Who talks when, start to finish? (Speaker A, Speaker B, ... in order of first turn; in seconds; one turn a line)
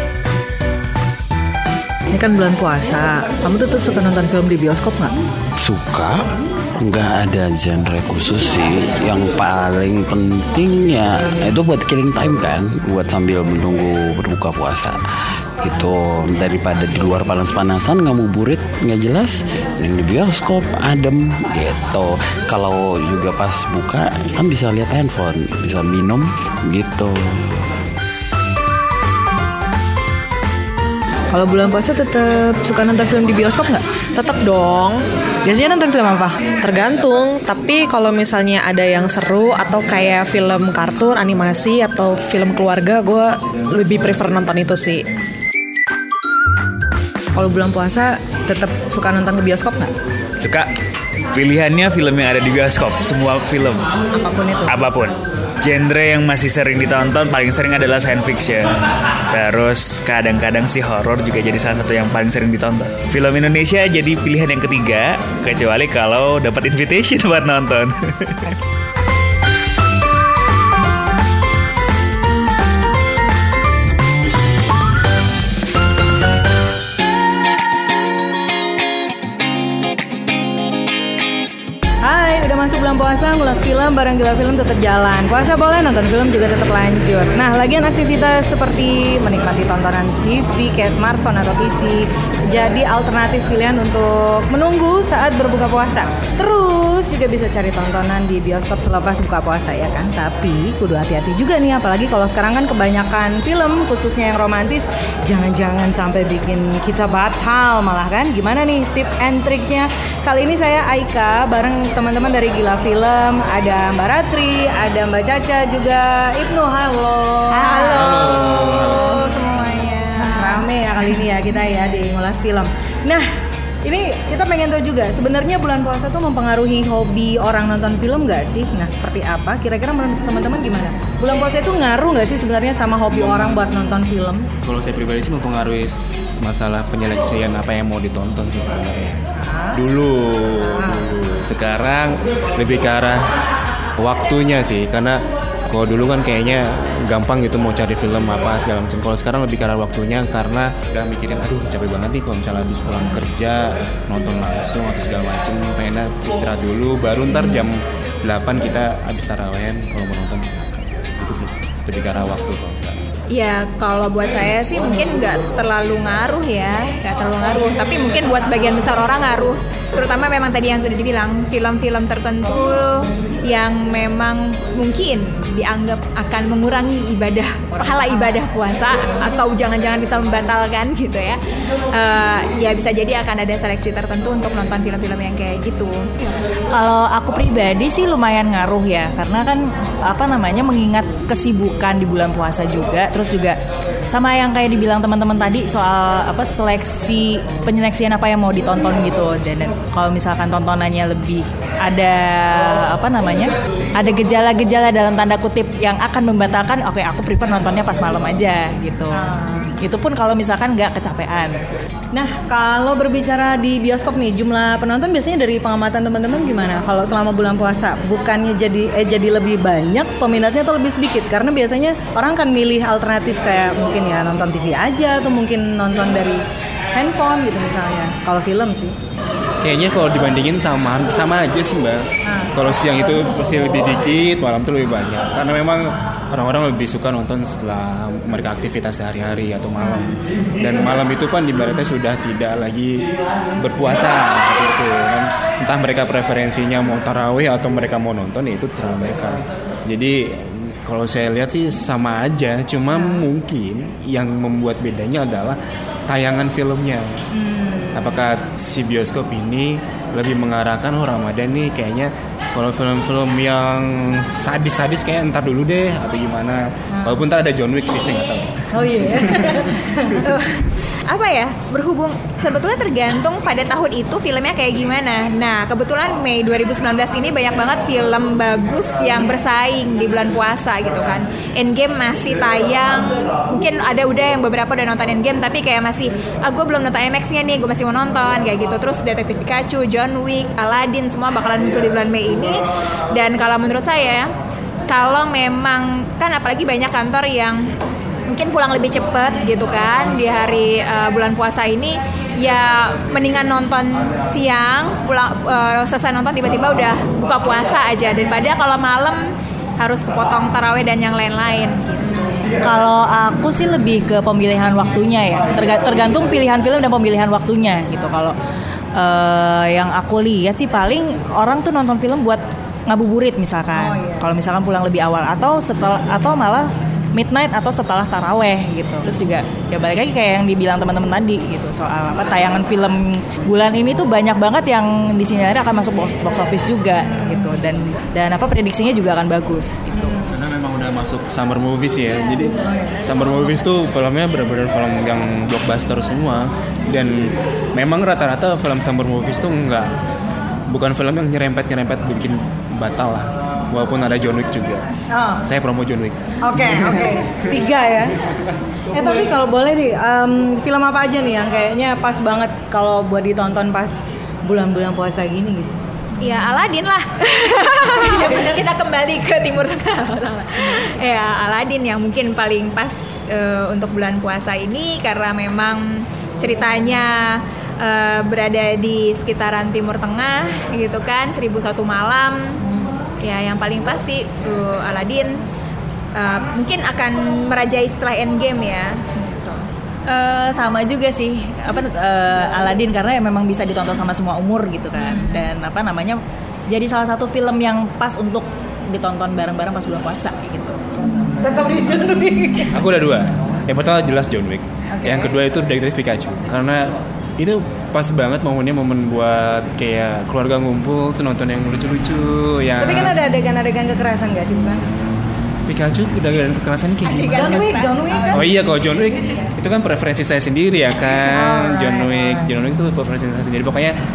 Speaker A: 2.1-5.1
Speaker B: 5.6-6.2
Speaker B: 6.8-15.0
Speaker B: 15.6-27.7
Speaker A: 31.3-33.8
Speaker C: 34.1-35.0
Speaker A: 35.4-36.3
Speaker C: 36.6-45.0
Speaker A: 47.3-49.9
Speaker D: 50.4-50.7
Speaker D: 51.3-53.9
Speaker A: 54.1-54.9
Speaker D: 54.7-58.8
Speaker D: 59.3-68.5
Speaker A: 82.0-118.1
Speaker E: 117.5-120.6
Speaker F: 117.9-119.8
Speaker A: 120.2-123.2
Speaker A: 123.8-134.5
Speaker F: 133.1-133.7
Speaker F: 134.6-139.2
Speaker F: 139.7-143.3
Speaker A: 140.6-141.1
Speaker F: 144.0-163.0
Speaker E: 163.3-181.4
Speaker G: 177.7-178.4
Speaker E: 181.9-186.0
Speaker G: 186.7-193.6
Speaker G: 194.1-211.6
Speaker A: 209.1-209.7
Speaker A: 212.1-226.4
Speaker A: 226.9-228.9
Speaker F: 229.6-243.0
Speaker A: 232.2-232.5
Speaker A: 239.8-240.1
Speaker F: 243.6-257.1
Speaker A: 252.9-253.3
Speaker A: 257.4-258.1
Speaker F: 257.9-268.5
Speaker A: 266.9-267.2
Speaker A: 268.7-270.3
Speaker E: 270.2-294.3
Speaker E: 294.9-297.7
Speaker E: 298.3-309.2
Speaker E: 309.8-312.4
Speaker G: 312.6-318.3
Speaker G: 318.9-340.2
Speaker A: 323.7-324.4
Speaker F: 340.2-349.9
Speaker G: 342.7-343.7
Speaker F: 350.7-354.9
Speaker A: 355.1-355.4
Speaker F: 355.4-356.2
Speaker A: 356.4-358.1
Speaker A: 358.9-363.9
Speaker A: 364.4-365.7
Speaker E: 366.2-382.6
Speaker G: 367.9-368.6
Speaker E: 383.2-385.4
Speaker E: 386.1-389.6
Speaker G: 390.1-400.8
Speaker A: 401.4-402.7
Speaker F: 402.7-413.2
Speaker A: 404.9-405.4
Speaker A: 412.8-414.8
Speaker F: 415.7-417.7
Speaker E: 417.0-418.4
Speaker A: 417.3-418.5
Speaker F: 418.3-423.9
Speaker A: 421.2-422.5